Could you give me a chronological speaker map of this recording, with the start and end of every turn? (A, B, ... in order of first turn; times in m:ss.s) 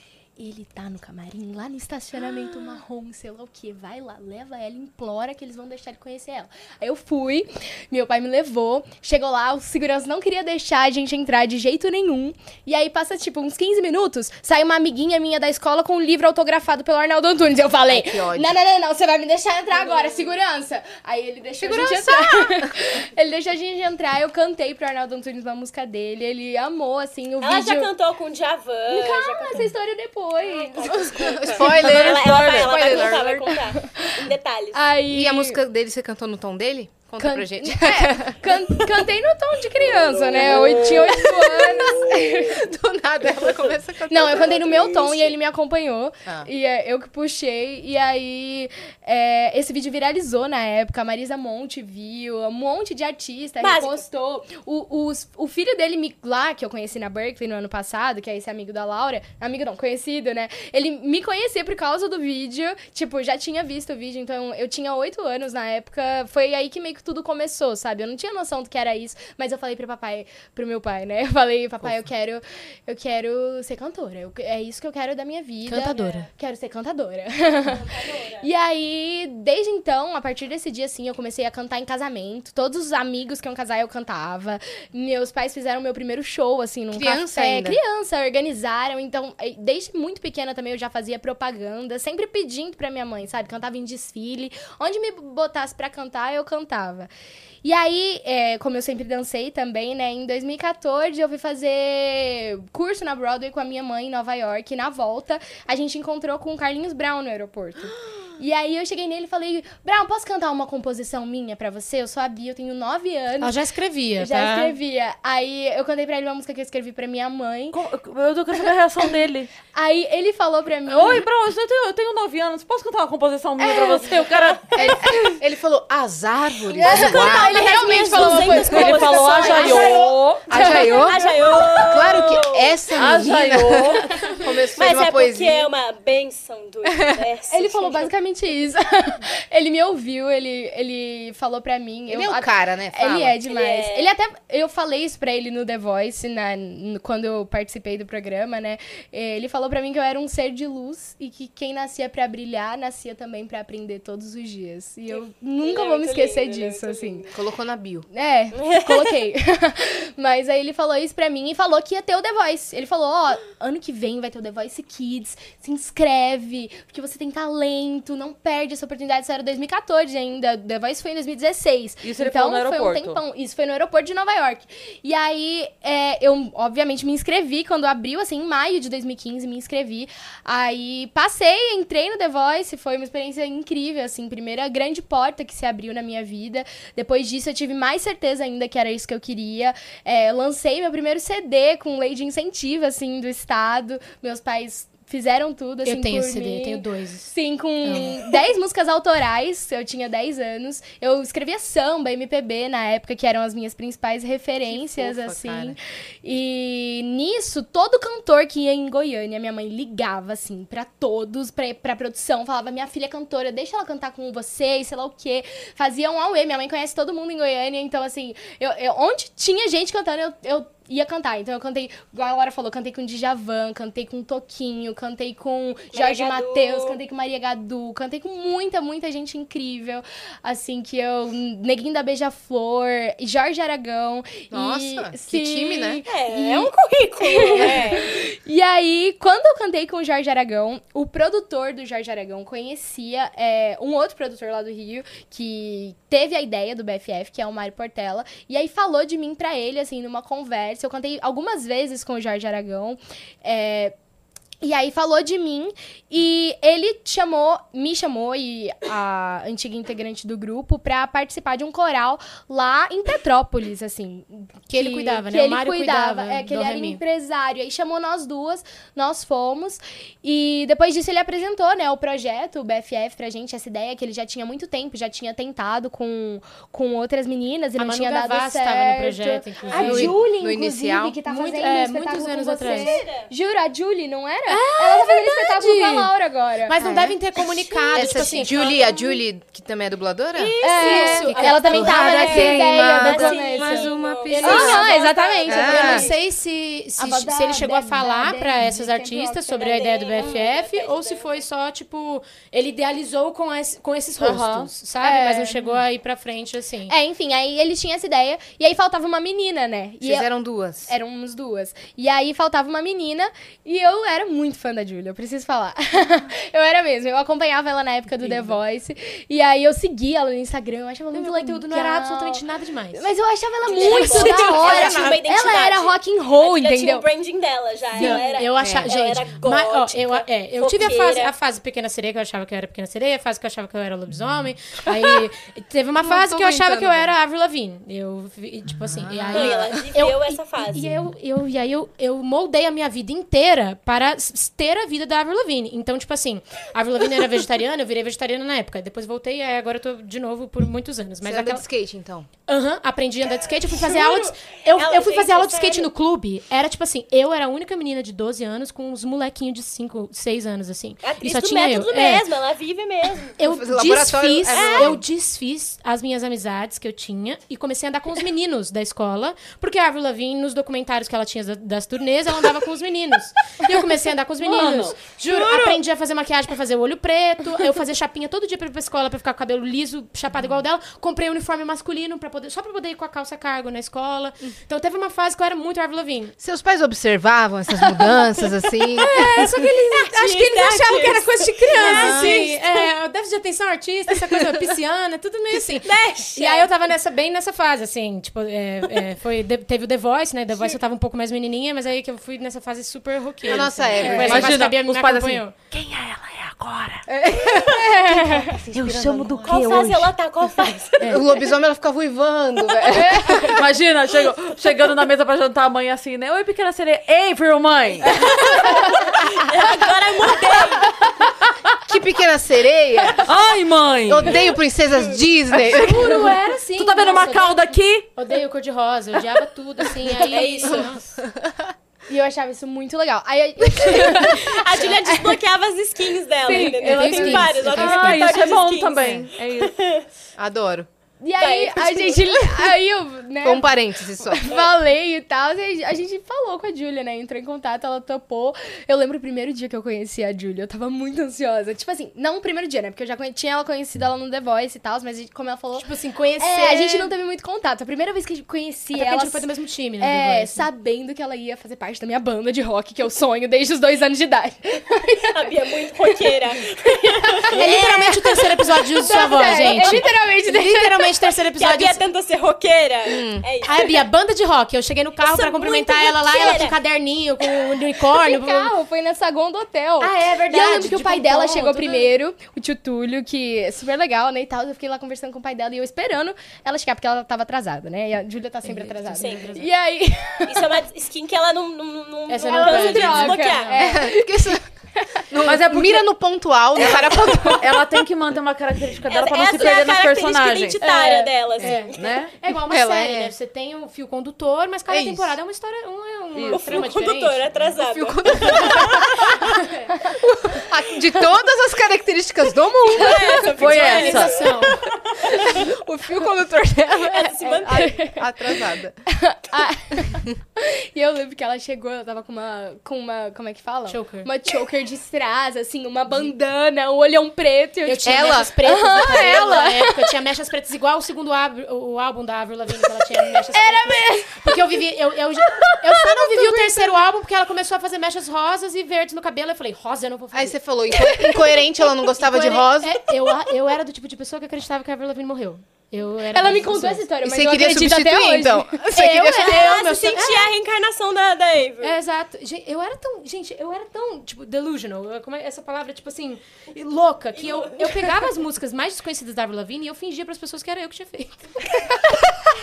0:00.4-0:27.9 A
0:17.9-0:18.6 B
0:19.8-0:20.3 C
0:21.7-0:22.0 B
0:21.8-0:22.2 D
0:27.4-0:29.7 C
0:28.9-0:31.4 A
0:30.4-0:34.9 C
0:31.0-0:33.5 B
0:31.6-0:33.0 E
0:33.8-0:34.2 A
0:34.7-0:35.6 A
0:35.1-0:38.4 B
0:37.2-0:42.6 A
0:40.4-0:40.8 C
0:40.5-0:45.3 B
0:44.1-1:17.9 A
0:53.6-0:54.0 C
1:15.7-1:16.2 B
1:15.7-1:16.2 D
1:17.7-1:18.5 C
1:18.4-1:37.1 A
1:26.9-1:27.8 B
1:37.6-1:53.6 A
1:53.4-1:54.7 D
1:54.2-1:57.8 A
1:57.7-1:59.5 E
1:59.7-2:01.2 A
2:00.9-2:04.7 E
2:03.6-2:05.3 A
2:04.7-2:07.6 B
2:06.7-2:12.8 C
2:06.8-2:11.4 A
2:08.5-2:10.6 E
2:10.5-2:15.7 B
2:12.9-2:14.1 E
2:14.8-2:18.1 C
2:17.5-2:37.2 A
2:22.1-2:23.4 B
2:23.4-2:24.1 C
2:35.1-2:37.4 C
2:37.3-2:38.1 B
2:38.1-4:13.9 A
2:38.6-2:39.1 C
2:52.0-2:53.2 E
3:15.8-3:18.2 D
3:24.6-3:25.8 B
3:45.9-3:47.0 C
3:54.5-3:56.0 B
3:56.0-3:58.1 C
4:14.6-4:46.8 A
4:24.7-4:27.0 D
4:37.8-4:40.2 D
4:39.6-4:39.9 C
4:39.8-4:41.2 B
4:41.2-4:43.0 D
4:42.6-4:43.3 C
4:44.5-4:46.1 D
4:46.6-4:48.8 D
4:46.8-4:47.2 B
4:47.8-4:49.2 C
4:47.9-4:50.6 B
4:50.4-4:56.2 C
4:50.6-4:56.1 A
4:50.6-4:53.7 D
4:51.4-4:54.9 B
4:54.2-4:55.0 D
4:55.4-4:56.1 B
4:55.6-5:06.9 D
4:57.0-5:00.3 A
4:59.6-5:01.4 C
5:04.2-5:04.7 E
5:05.0-5:05.6 A
5:06.9-5:27.0 A
5:10.0-5:10.9 B
5:18.1-5:18.6 D
5:21.1-5:23.1 D
5:23.6-5:31.3 C
5:23.8-5:25.2 D
5:27.9-5:51.6 D
5:28.6-5:28.9 B
5:36.0-5:37.1 B
5:38.9-5:39.8 B
5:39.3-5:41.0 C
5:51.2-5:52.3 B
5:52.5-6:02.2 D
5:53.7-5:55.9 C
6:01.0-6:03.4 C
6:03.4-6:26.3 D
6:03.4-6:05.0 B
6:04.5-6:05.0 C
6:14.4-6:15.0 E
6:15.2-6:15.8 C
6:26.4-6:29.4 B
6:28.9-6:45.7 D
6:29.9-6:32.8 C
6:31.8-6:32.4 B
6:35.8-6:36.7 C
6:43.4-6:44.7 B
6:44.2-6:47.0 E
6:47.1-6:47.9 B
6:47.7-6:48.6 A
6:48.1-6:50.1 D
6:48.5-6:49.8 B
6:48.8-6:49.0 E
6:49.4-6:51.3 C
6:51.1-6:53.6 B
6:52.9-6:53.6 A
6:53.4-6:58.7 E
6:58.1-7:00.9 C
7:01.9-7:03.3 B
7:03.2-7:04.5 E
7:04.0-7:06.2 B
7:04.8-7:05.2 C
7:05.6-7:11.0 D
7:06.7-7:08.1 E
7:10.2-7:10.9 C
7:10.6-7:11.7 B
7:12.1-7:15.4 A
7:13.8-7:20.1 C
7:16.4-7:17.5 A
7:16.4-7:18.4 D
7:17.7-7:19.7 E
7:19.0-7:19.2 B
7:20.4-7:20.9 B
7:21.2-7:46.3 A
7:21.4-7:22.3 C
7:23.4-7:24.5 B
7:35.7-7:37.1 D
7:38.9-7:40.7 D
7:45.3-7:48.4 C
7:46.9-7:48.0 A
7:47.5-7:52.0 D
7:48.9-7:51.3 A
7:49.4-7:50.0 C
7:51.5-7:54.0 C
7:53.0-7:53.4 B
7:53.6-7:58.7 D
7:55.2-7:56.8 C
7:58.1-8:10.8 A
8:00.0-8:02.1 D
8:08.6-8:09.7 D
8:09.2-8:09.6 C
8:10.4-8:13.7 C
8:12.3-8:13.9 D
8:12.5-8:15.3 A
8:13.8-8:14.6 B
8:15.3-8:17.8 B
8:15.4-8:16.1 E
8:16.8-8:20.8 E
8:19.0-8:22.0 C
8:20.8-8:21.3 A
8:21.6-8:27.5 D
8:21.6-8:22.4 E
8:22.5-8:23.3 B
8:24.9-8:25.4 B
8:26.3-8:26.9 E
8:26.5-8:29.6 C
8:27.8-8:29.4 B
8:29.4-8:30.0 D
8:30.2-8:34.1 B
8:32.9-8:35.7 C
8:33.6-8:34.4 E
8:33.8-8:34.8 D
8:34.1-8:34.7 A
8:35.5-8:37.1 B
8:35.6-8:36.5 A
8:37.1-8:38.0 C
8:37.2-8:50.1 A
8:37.7-8:39.0 B
8:43.9-8:44.3 D
8:47.8-9:00.6 D
8:48.0-8:48.5 B
8:53.5-8:54.6 A
8:55.6-8:57.0 A
9:00.3-9:03.0 B
9:02.2-9:07.1 D
9:06.3-9:09.5 A
9:07.2-9:09.7 B
9:09.0-9:10.5 D
9:09.4-9:12.0 C
9:11.8-9:21.7 D
9:17.4-9:17.8 C
9:21.8-9:22.2 A